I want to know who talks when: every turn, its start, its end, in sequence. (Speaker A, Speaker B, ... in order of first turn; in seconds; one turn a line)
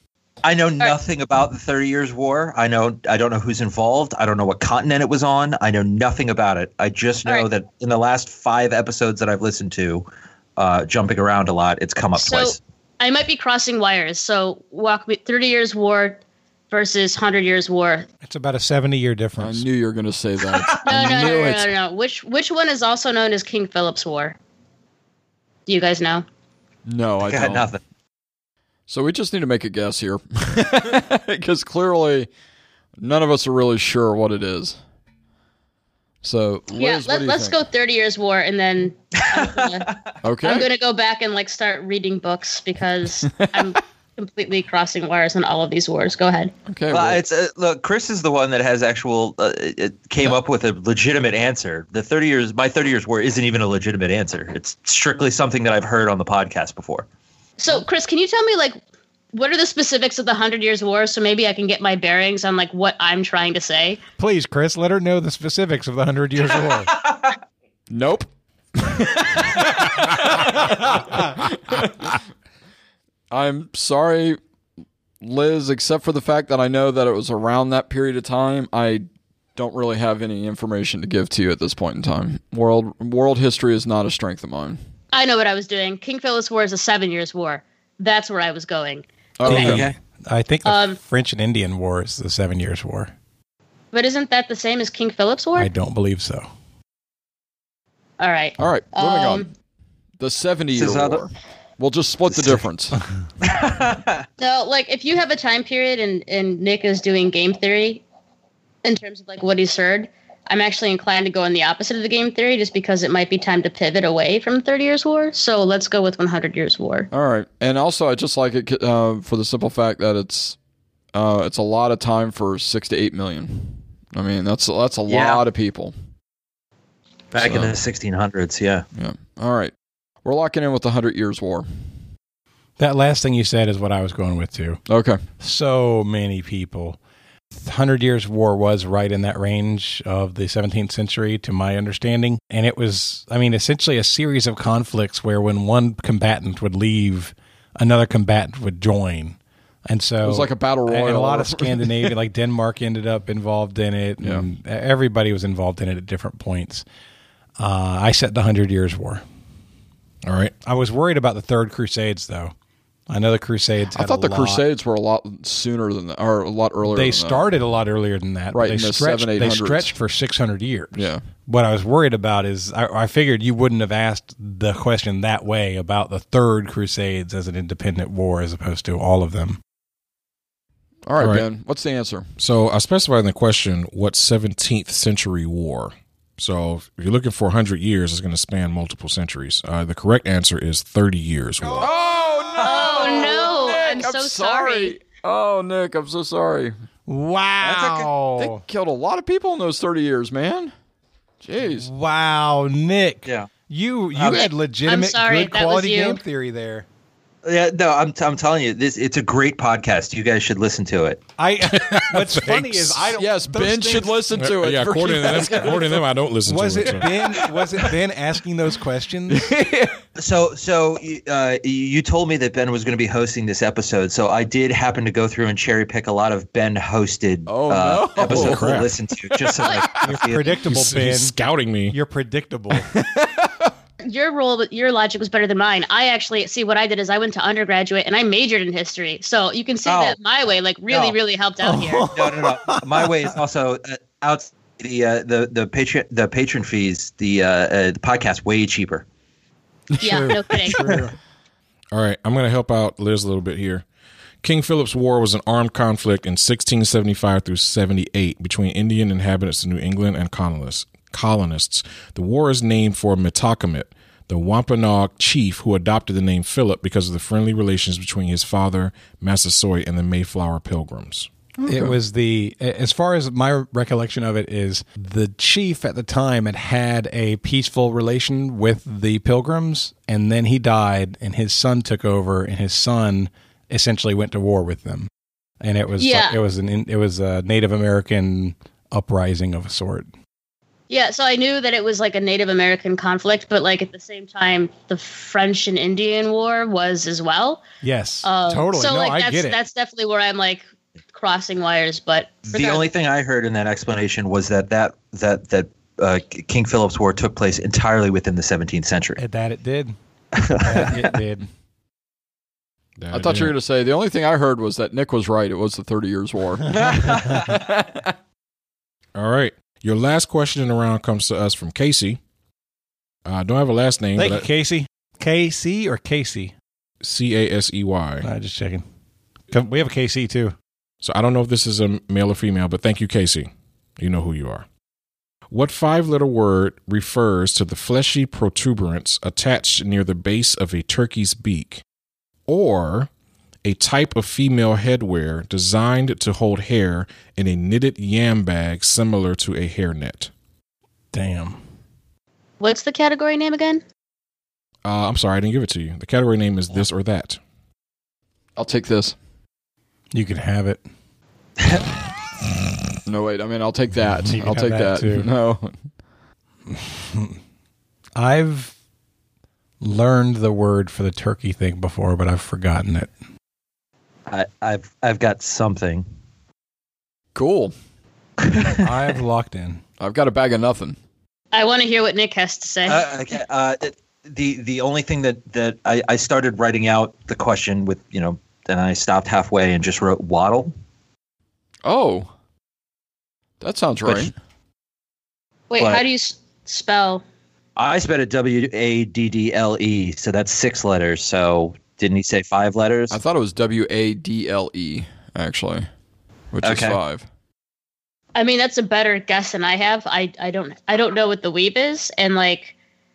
Speaker A: 0.4-12.6
Speaker B: 12.2-16.2
Speaker B: 16.7-18.1
Speaker C: 18.2-19.6
Speaker D: 19.4-21.7
Speaker A: 20.5-21.1
Speaker B: 20.8-24.4
Speaker B: 25.7-26.2
Speaker D: 26.9-27.7
Speaker A: 27.2-27.8
Speaker D: 28.9-32.3
Speaker D: 33.0-34.8
Speaker D: 36.2-37.6
Speaker B: 36.7-39.9
Speaker A: 39.2-40.1
Speaker D: 40.2-40.7
Speaker B: 40.4-46.5
Speaker D: 43.2-43.8
Speaker D: 46.7-47.2
Speaker A: 46.9-57.0
Speaker B: 57.6-58.8
Speaker B: 59.3-64.0
Speaker C: 64.2-66.9
Speaker A: 67.0-67.3
Speaker D: 67.9-72.2
Speaker D: 73.3-74.4
Speaker D: 75.2-84.8
Speaker B: 85.1-89.0
Speaker D: 89.4-89.9
Speaker C: 89.4-93.1
Speaker A: 89.5-90.0
Speaker B: 90.6-91.0
Speaker B: 93.9-95.7
Speaker C: 95.5-96.5
Speaker B: 98.2-99.5
Speaker D: 98.6-99.5
Speaker D: 100.2-103.0
Speaker A: 100.7-101.2
Speaker A: 102.3-102.6
Speaker A: 103.4-104.2
Speaker B: 104.4-108.0
Speaker B: 108.8-117.1
Speaker D: 117.1-120.5
Speaker D: 121.1-125.9
Speaker A: 125.1-125.4
Speaker A: 127.3-128.8
Speaker D: 127.4-127.7
Speaker D: 128.9-129.7
Speaker D: 130.2-131.7
Speaker C: 132.8-134.8
Speaker D: 134.9-135.2
Speaker C: 135.4-137.0
Speaker C: 137.5-156.8
Speaker D: 150.2-152.1
Speaker D: 154.2-154.4
Speaker C: 157.6-159.2
Speaker E: 160.2-160.5
Speaker C: 160.6-162.5
Speaker C: 163.1-164.6
Speaker D: 163.9-167.5
Speaker C: 166.8-179.6
Speaker D: 168.5-169.9
Speaker D: 170.9-171.2
Speaker D: 181.1-182.3
Speaker E: 181.2-181.4
Speaker E: 182.4-191.9
Speaker C: 191.6-191.9
Speaker D: 191.8-196.7
Speaker A: 192.6-193.5
Speaker B: 192.6-194.9
Speaker C: 197.1-198.6
Speaker A: 197.6-198.1
Speaker D: 198.4-200.7
Speaker D: 201.4-201.9
Speaker C: 201.6-206.8
Speaker A: 204.1-204.5
Speaker B: 204.3-206.2
Speaker A: 207.4-211.2
Speaker C: 211.4-214.2
Speaker E: 211.7-213.0
Speaker D: 213.1-216.0
Speaker E: 214.3-217.2
Speaker C: 216.4-219.5
Speaker D: 217.2-217.8
Speaker D: 219.3-220.0
Speaker A: 220.2-230.6
Speaker D: 227.5-228.7
Speaker E: 228.2-228.9
Speaker D: 229.4-229.8
Speaker C: 230.0-231.3
Speaker E: 230.6-231.9
Speaker C: 231.9-232.9
Speaker D: 232.8-233.7
Speaker B: 234.0-242.1
Speaker A: 239.8-240.2
Speaker A: 240.9-241.2
Speaker C: 241.6-243.3
Speaker A: 242.1-249.0
Speaker C: 250.0-251.2
Speaker B: 250.0-250.9
Speaker E: 251.9-253.8
Speaker E: 254.4-271.3
Speaker D: 271.6-271.9
Speaker C: 271.7-285.1
Speaker C: 285.6-290.1
Speaker B: 286.0-286.4
Speaker B: 290.9-297.6
Speaker C: 297.8-299.6
Speaker B: 298.2-302.9
Speaker A: 302.5-309.2
Speaker C: 309.2-309.9
Speaker A: 310.4-311.1
Speaker C: 310.5-311.5
Speaker E: 313.0-313.5
Speaker D: 313.1-318.1
Speaker A: 316.7-317.6
Speaker E: 319.1-322.2
Speaker E: 323.2-324.5
Speaker C: 324.1-326.5
Speaker E: 327.0-328.3
Speaker C: 328.2-328.8
Speaker C: 329.5-330.6
Speaker E: 331.0-334.6
Speaker E: 335.5-341.8
Speaker E: 342.5-343.1
Speaker E: 343.6-350.3
Speaker C: 351.1-351.6
Speaker B: 352.6-353.8
Speaker E: 354.8-357.4
Speaker D: 358.6-359.1
Speaker C: 360.1-360.8
Speaker A: 361.6-361.8
Speaker D: 363.1-365.8
Speaker C: 364.3-365.3
Speaker C: 366.7-367.4
Speaker C: 368.1-368.7
Speaker C: 369.8-373.1
Speaker A: 374.3-376.1
Speaker D: 377.3-377.7
Speaker A: 378.4-378.8
Speaker C: 378.8-379.8
Speaker D: 380.0-380.9
Speaker B: 381.5-383.1
Speaker A: 382.9-390.7
Speaker D: 391.8-392.3
Speaker D: 393.6-394.3
Speaker A: 394.0-394.3
Speaker B: 395.7-397.2
Speaker A: 395.8-396.0
Speaker A: 397.8-403.2
Speaker D: 403.1-405.9
Speaker D: 406.5-407.2
Speaker A: 406.6-407.0
Speaker B: 408.3-412.7